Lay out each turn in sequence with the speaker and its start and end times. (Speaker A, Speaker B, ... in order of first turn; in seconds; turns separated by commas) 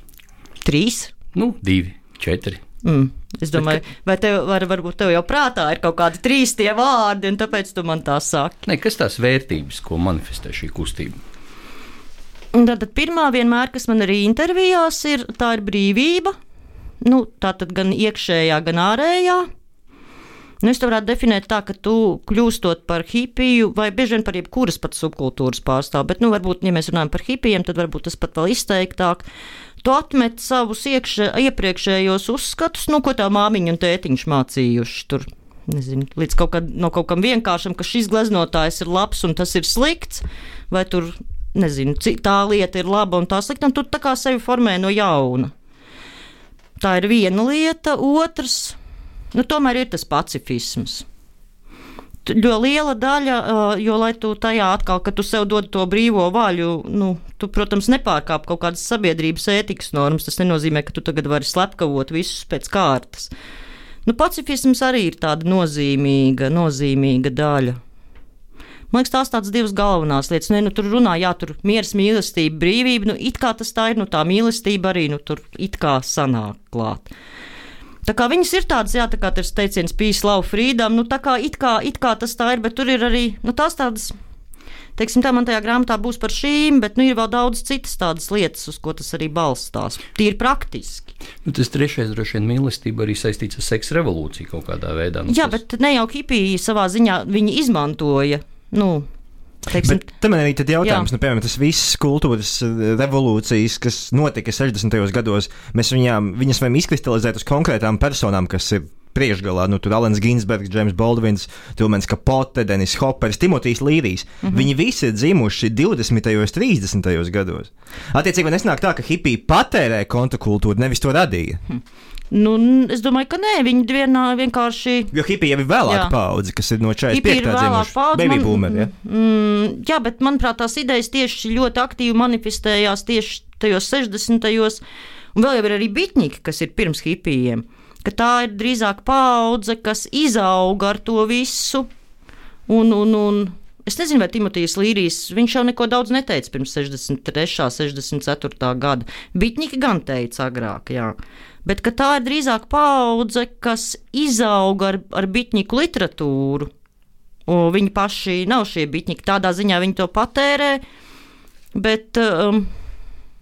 Speaker A: 0.6-1.1, Speaker B: 1.3-2.6, Speaker A: 2.8-8.6, Speaker B: 8.7-11.2, Speaker A: 12.5-16.4, Speaker A: 17.0-19.5, Speaker A: 20.6-29.2, Speaker A: 29.8-45.5, Speaker A: 46.8-48.8, Speaker A: 49.3-51.0, Speaker A: 52.2-63.3, Speaker A: 64.0-67.8, Speaker A: 68.9-77.1, Speaker A: 78.0-84.2, Speaker A: 85.0-91.1, Speaker B: 91.4-95.6, Speaker A: 95.3-99.0, Speaker A: 99.7-100.1, Speaker C: 99.8-121.6, Speaker A: 100.8-101.1, Speaker A: 114.4-114.7, Speaker A: 121.7-125.1, Speaker C: 125.1-128.9, Speaker A: 125.8-126.1, Speaker A: 127.1-134.8, Speaker A: 135.3-141.9, Speaker A: 142.7-156.7, Speaker A: 157.5-160.8, Speaker A: 161.7-162.7